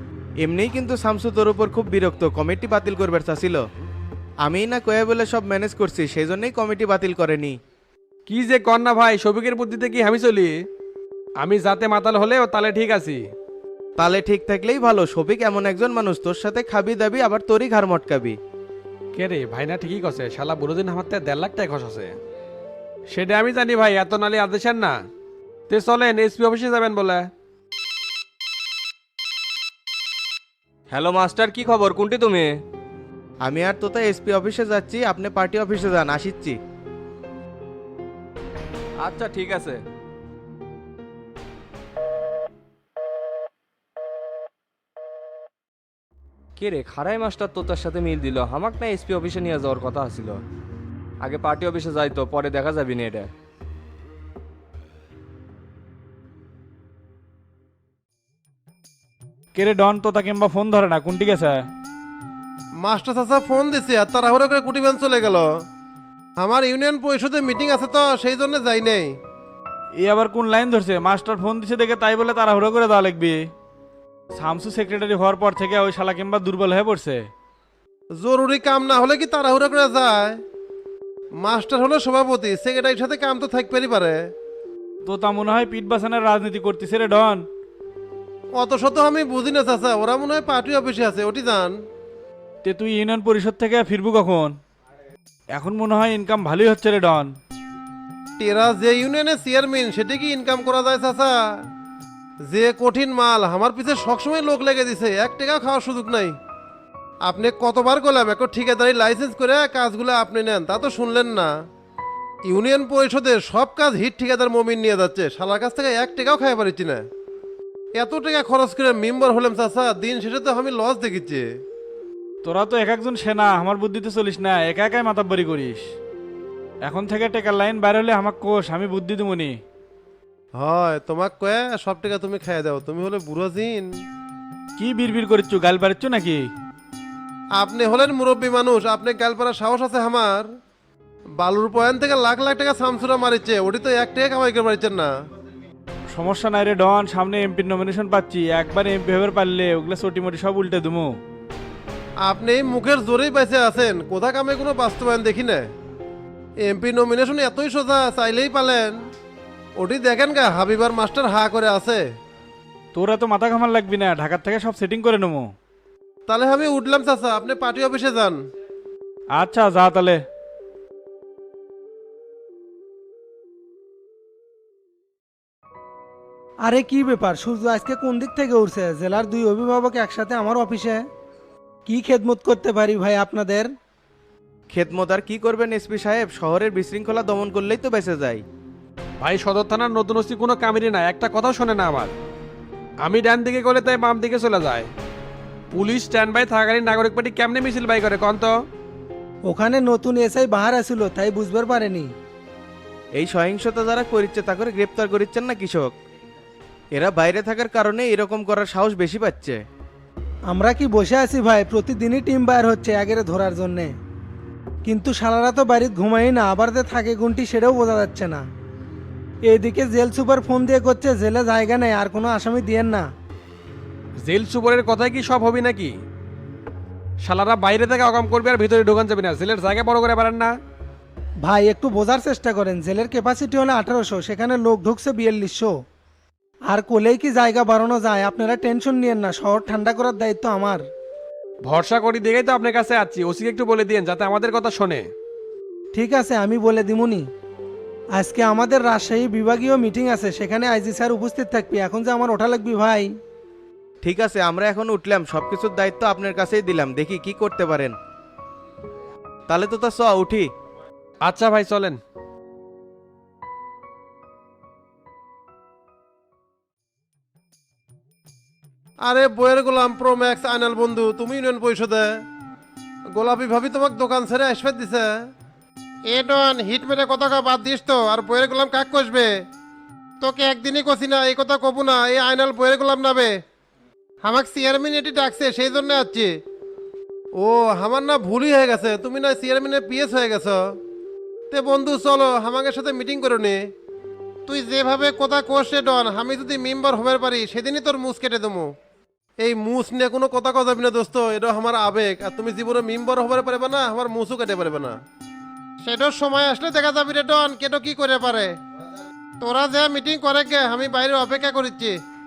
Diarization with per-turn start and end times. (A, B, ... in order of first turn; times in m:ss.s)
0:00.4-0:03.6 A
0:04.4-0:07.6 A
0:08.3-0:10.5 B
0:11.4-0:13.2 B
0:14.0-0:18.4 A
0:19.2-0:22.1 B
0:23.2-0:24.9 B
0:25.7-0:27.2 B
0:30.9-0:32.5 C
0:33.4-0:36.6 A
0:39.0-0:39.8 C
0:46.6-0:50.4 C
0:51.2-0:53.3 C
0:59.5-1:01.7 D
1:02.8-1:05.5 E
1:06.4-1:09.1 E
1:10.0-1:13.5 D
1:14.3-1:17.3 D
1:18.2-1:20.4 E
1:21.4-1:24.2 E
1:25.0-1:27.4 D
1:28.5-1:31.7 E
1:32.6-1:34.6 D
1:35.5-1:37.3 D
1:38.4-1:41.3 E
1:42.5-1:46.3 E
1:47.2-1:51.5 E
1:52.4-1:57.0 E
1:57.9-2:01.5 E
2:02.4-2:05.8 D
2:06.8-2:09.6 D
2:10.5-2:13.9 E
2:14.8-2:16.5 D
2:17.6-2:20.5 E
2:21.4-2:25.1 E
2:26.1-2:31.1 D
2:32.2-2:35.6 E
2:36.6-2:39.0 E
2:39.8-2:42.0 E
2:42.9-2:45.5 D
2:46.3-2:48.4 E
2:49.3-2:50.2 D
2:56.6-3:01.0 F
3:01.8-3:03.7 F
3:04.7-3:08.4 A
3:09.2-3:12.1 B
3:13.1-3:14.8 B
3:15.8-3:18.5 B
3:19.5-3:22.1 F
3:23.2-3:25.9 A
3:26.9-3:29.6 A
3:30.5-3:33.9 F
3:34.8-3:38.4 F
3:39.5-3:43.1 F
3:44.3-3:45.9 B
3:47.2-3:50.5 B
3:51.4-3:55.7 F
3:56.7-4:00.8 F
4:01.7-4:05.0 B
4:05.9-4:07.2 F
4:08.1-4:13.1 F
4:14.0-4:18.0 A
4:19.5-4:20.5 A
4:21.3-4:22.0 B
4:29.0-4:32.1 E
4:33.1-4:35.1 E
4:36.1-4:39.3 E
4:40.2-4:43.3 E
4:44.2-4:46.3 E
4:47.3-4:50.6 E
4:51.5-4:53.6 E
4:54.5-4:58.7 E
4:59.4-5:05.0 E
5:05.8-5:08.5 E
5:09.4-5:12.0 E